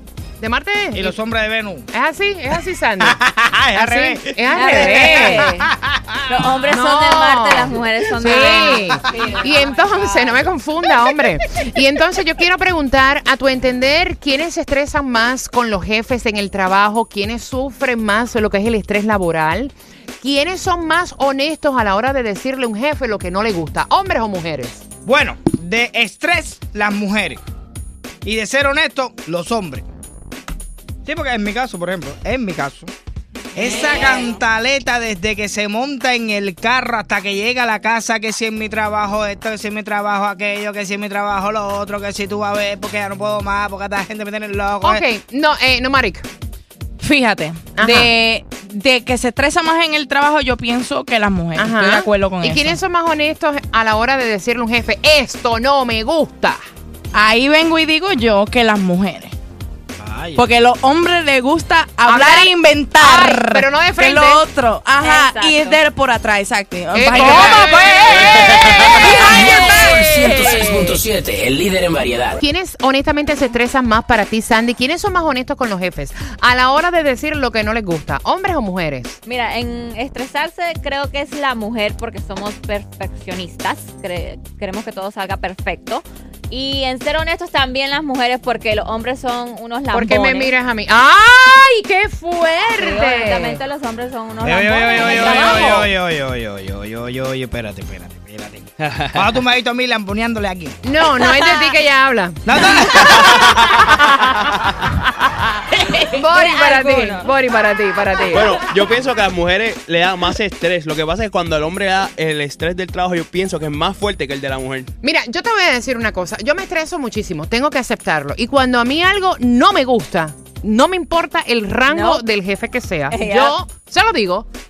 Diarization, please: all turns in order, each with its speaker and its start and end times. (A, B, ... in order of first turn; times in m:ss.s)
0:00.4-0:01.2 A
0:00.9-0:01.9 B
0:01.9-0:03.2 A
0:03.0-0:06.4 B
0:03.7-0:05.5 A
0:04.5-0:05.7 C
0:06.3-0:10.4 C
0:06.7-0:24.8 A
0:25.0-0:27.4 B
0:28.2-0:29.8 B
0:31.0-0:32.9 B
0:33.5-0:45.0 B
0:44.8-0:46.2 A
0:47.0-0:52.8 D
0:47.7-0:48.1 A
0:51.5-0:56.6 A
0:57.1-0:59.3 D
1:00.0-1:00.4 B
1:00.4-1:08.5 D
1:02.0-1:04.4 A
1:05.0-1:05.8 C
1:06.9-1:11.0 A
1:08.5-1:12.4 E
1:09.2-1:10.4 D
1:12.4-1:19.2 A
1:19.2-1:30.5 C
1:29.9-1:33.6 A
1:32.4-1:35.9 C
1:34.4-1:40.8 B
1:35.2-1:35.5 A
1:40.8-1:42.4 A
1:42.4-1:43.4 B
1:43.9-1:45.3 A
1:45.9-1:48.6 A
1:46.3-1:47.2 C
1:48.3-1:54.9 F
1:55.0-2:04.5 A
2:01.9-2:02.2 C
2:03.1-2:03.6 C